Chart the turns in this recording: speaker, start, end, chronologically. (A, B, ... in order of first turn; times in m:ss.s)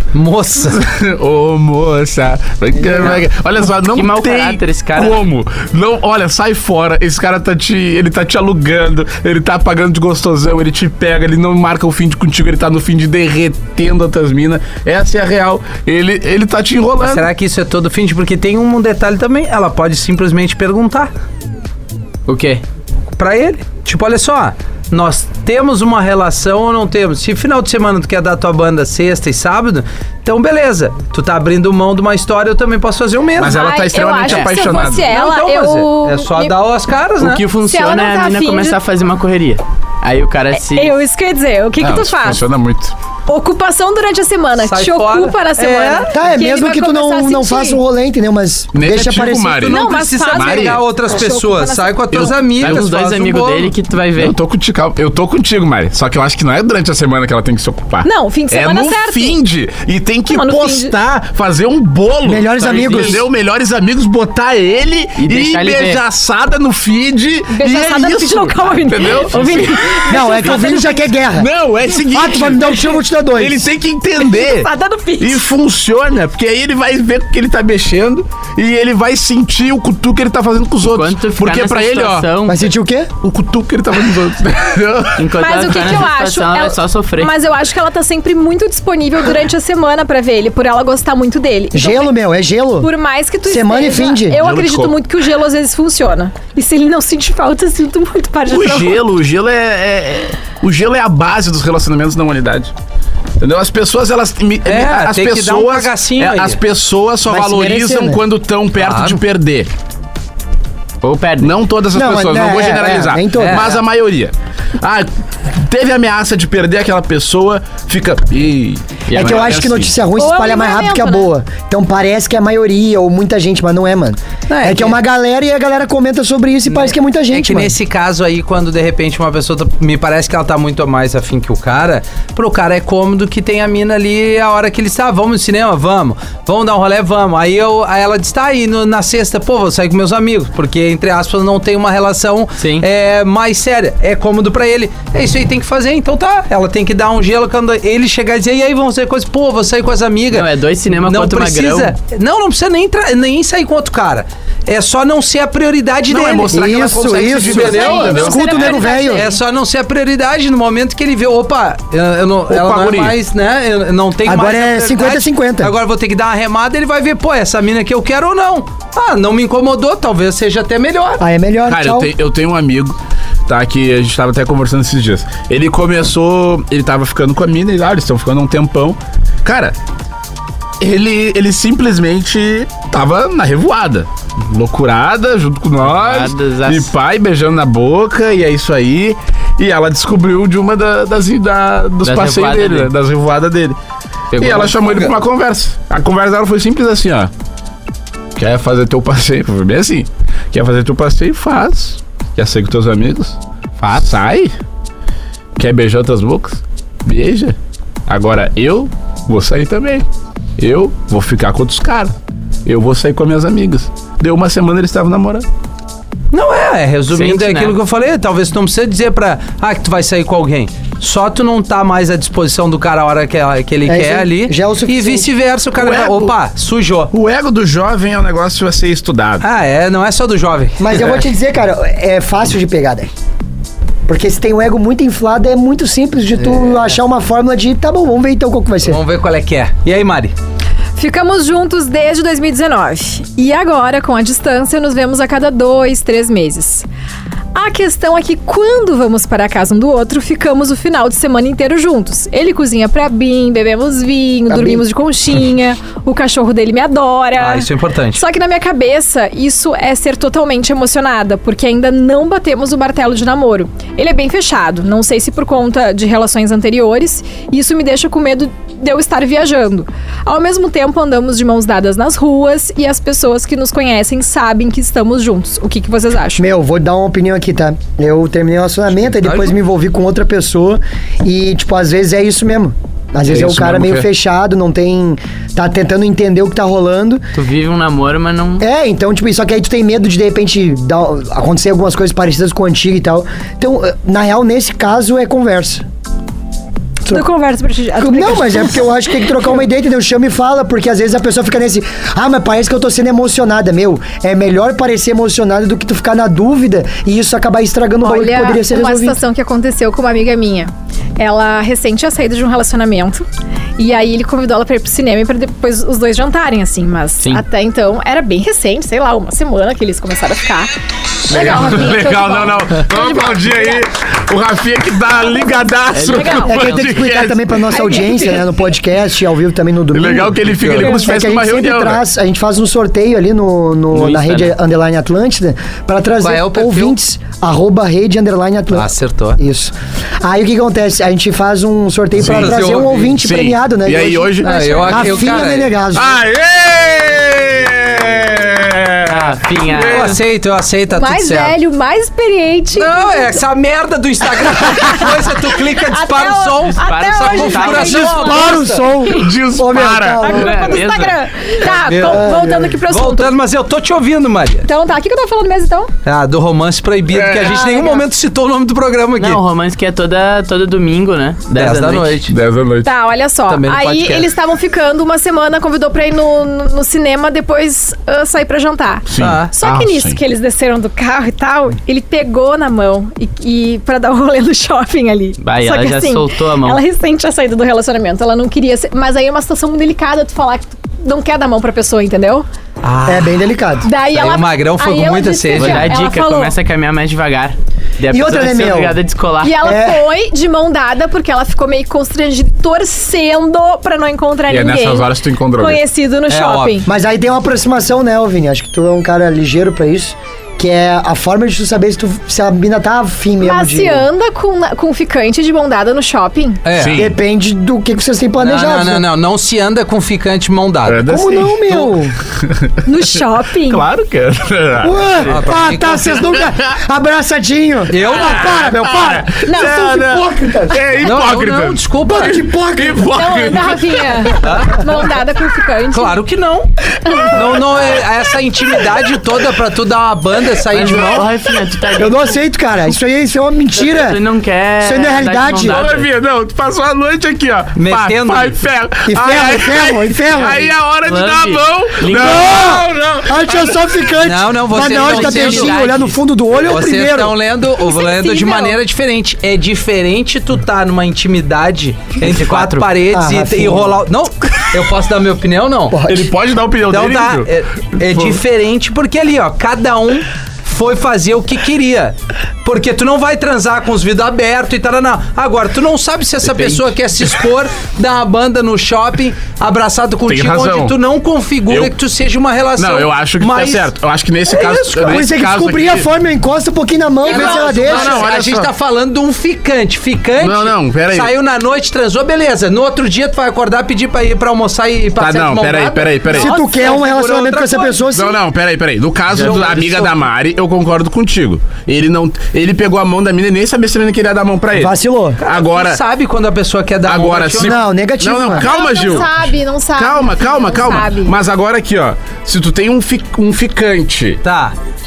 0:00.1-0:00.8 A
0:00.7-0:17.3 B
0:03.8-0:05.2 C
0:17.0-0:21.1 A
0:22.2-0:22.6 C
0:23.2-0:33.6 A
0:33.4-0:35.1 B
0:33.5-0:36.5 D
0:34.3-0:34.5 C
0:34.8-0:37.4 A
0:37.2-0:40.9 C
0:37.6-0:38.8 D
0:40.5-0:42.4 D
0:41.8-0:42.9 B
0:43.3-0:47.8 D
0:44.6-0:46.1 A
0:46.1-0:49.6 E
0:48.7-0:50.8 B
0:49.4-0:53.7 A
0:49.6-0:52.3 D
0:52.6-0:54.4 C
0:52.6-0:52.8 B
0:54.2-1:10.8 B
0:58.0-0:59.4 D
1:00.3-1:01.0 D
1:02.2-1:03.2 E
1:02.7-1:03.2 C
1:05.2-1:06.0 C
1:07.5-1:11.1 D
1:10.1-1:11.5 E
1:11.3-1:22.3 B
1:12.1-1:13.7 E
1:14.2-1:15.4 D
1:20.8-1:22.7 C
1:22.4-1:23.1 E
1:23.2-1:25.2 B
1:25.2-1:27.3 C
1:25.4-1:32.1 D
1:31.7-1:32.9 E
1:32.8-1:39.0 D
1:33.4-1:34.4 E
1:34.3-1:35.0 B
1:38.5-1:42.7 B
1:43.4-1:49.7 B
1:44.6-1:46.6 A
1:47.3-1:48.2 E
1:48.7-1:49.2 A
1:51.0-1:51.5 C
1:51.4-1:59.9 B
1:51.9-1:53.6 E
1:53.4-1:53.8 A
1:59.1-1:59.6 C
1:59.1-2:07.7 E
2:00.2-2:01.3 D
2:04.5-2:05.0 A
2:06.7-2:51.2 A
2:22.6-2:22.8 C
2:30.3-2:31.9 C
2:36.1-2:38.6 B
2:36.5-2:39.3 E
2:37.6-2:39.4 D
2:42.5-2:43.2 B
2:44.2-2:45.7 E
2:51.2-2:52.1 E
2:51.7-2:59.7 B
3:00.8-3:13.8 B
3:05.8-3:06.9 C
3:12.0-3:12.9 C
3:14.3-3:15.1 A
3:14.4-3:17.3 B
3:18.4-3:24.5 B
3:25.6-3:27.6 B
3:28.1-3:30.0 B
3:30.6-3:32.1 B
3:32.6-3:35.4 B
3:36.3-3:47.1 A
3:37.1-3:37.7 C
3:43.8-3:45.3 E
3:45.8-3:46.3 B
3:47.1-3:49.4 B
3:49.4-3:50.9 A
3:50.8-3:53.1 E
3:54.1-3:59.0 E
3:56.4-3:57.0 A
3:58.8-4:00.3 A
4:01.0-4:06.8 D
4:07.5-4:36.4 D
4:14.5-4:14.8 E
4:17.4-4:18.2 A
4:36.4-4:47.2 E
4:39.1-4:39.5 A
4:43.2-4:44.0 B
4:47.3-4:48.6 C
4:48.6-4:55.8 E
4:57.0-4:58.9 D
4:58.0-5:09.2 E
5:08.0-5:13.2 D
5:13.8-5:20.7 D
5:21.3-5:23.8 D
5:21.3-5:27.7 B
5:25.9-5:26.4 C
5:26.1-5:26.7 D
5:26.4-5:46.2 E
5:27.7-5:28.4 D
5:29.9-5:32.0 B
5:33.9-5:34.5 C
5:36.2-5:37.0 A
5:38.7-5:39.4 A
5:42.2-5:43.1 A
5:42.2-5:44.5 B
5:44.4-5:45.4 D
5:44.4-5:45.7 A
5:45.9-5:50.2 B
5:49.1-5:50.1 C
5:49.8-5:51.6 A
5:50.9-5:53.4 D
5:52.7-5:58.8 A
5:54.6-5:59.1 D
5:56.7-5:58.3 C
5:58.1-6:00.8 E
5:59.1-6:00.3 B
6:00.2-6:03.4 D
6:00.3-6:01.2 C
6:01.6-6:02.3 A
6:02.0-6:02.8 E
6:02.8-6:04.7 A
6:04.6-6:05.9 D
6:06.0-6:09.4 A
6:07.1-6:07.5 B
6:07.4-6:08.0 D
6:09.2-6:12.3 C
6:11.5-6:12.3 A
6:12.3-6:12.9 B
6:12.8-6:32.4 D
6:13.5-6:14.3 A
6:19.1-6:20.2 B
6:19.2-6:19.5 A
6:25.4-6:26.8 C
6:32.8-6:33.4 A
6:33.0-6:33.9 E
6:33.8-6:36.5 D
6:34.1-6:35.9 A
6:35.6-6:39.6 C
6:38.1-6:39.0 E
6:39.4-6:46.9 D
6:39.6-6:40.0 E
6:44.5-6:45.8 B
6:46.3-6:46.8 A
6:46.8-6:54.1 E
6:53.4-6:56.6 D
6:56.6-6:57.0 A
6:56.7-6:57.1 B
6:56.9-6:59.0 E
6:58.4-7:01.0 A
7:00.8-7:02.8 B
7:01.1-7:02.1 E
7:02.8-7:03.8 D
7:03.6-7:05.3 B
7:04.8-7:10.8 E
7:05.3-7:06.2 A
7:06.4-7:06.7 B
7:07.9-7:08.7 A
7:08.1-7:14.3 B
7:09.4-7:10.0 D
7:11.0-7:12.4 A
7:12.1-7:13.1 E
7:13.1-7:16.2 D
7:14.4-7:14.8 A
7:15.9-7:16.7 A
7:17.0-7:17.4 D
7:17.3-7:21.3 A
7:20.7-7:22.3 C
7:22.0-7:24.2 E
7:23.7-7:26.1 C
7:24.8-7:25.8 E
7:25.6-7:33.8 B
7:27.8-7:28.6 A
7:29.0-7:30.6 E
7:31.0-7:32.6 C
7:32.1-7:37.4 E
7:34.2-7:35.9 A
7:34.8-7:36.2 C
7:36.6-7:46.0 A
7:37.8-7:38.8 D
7:42.2-7:42.9 C
7:43.1-7:44.0 E
7:45.9-7:46.3 E
7:46.1-7:48.4 B
7:46.9-8:03.9 A
8:00.3-8:01.0 B
8:01.7-8:01.9 B
8:02.8-8:06.0 B
8:04.8-8:08.2 E
8:07.2-8:18.0 A
8:07.3-8:08.7 B
8:10.4-8:11.3 B
8:15.2-8:16.5 B
8:16.3-8:18.4 E
8:18.1-8:26.0 B
8:19.3-8:20.1 A
8:24.7-8:25.4 E
8:25.4-8:27.8 A
8:27.0-8:34.4 B
8:27.6-8:28.7 E
8:28.6-8:31.3 D
8:34.4-8:34.7 A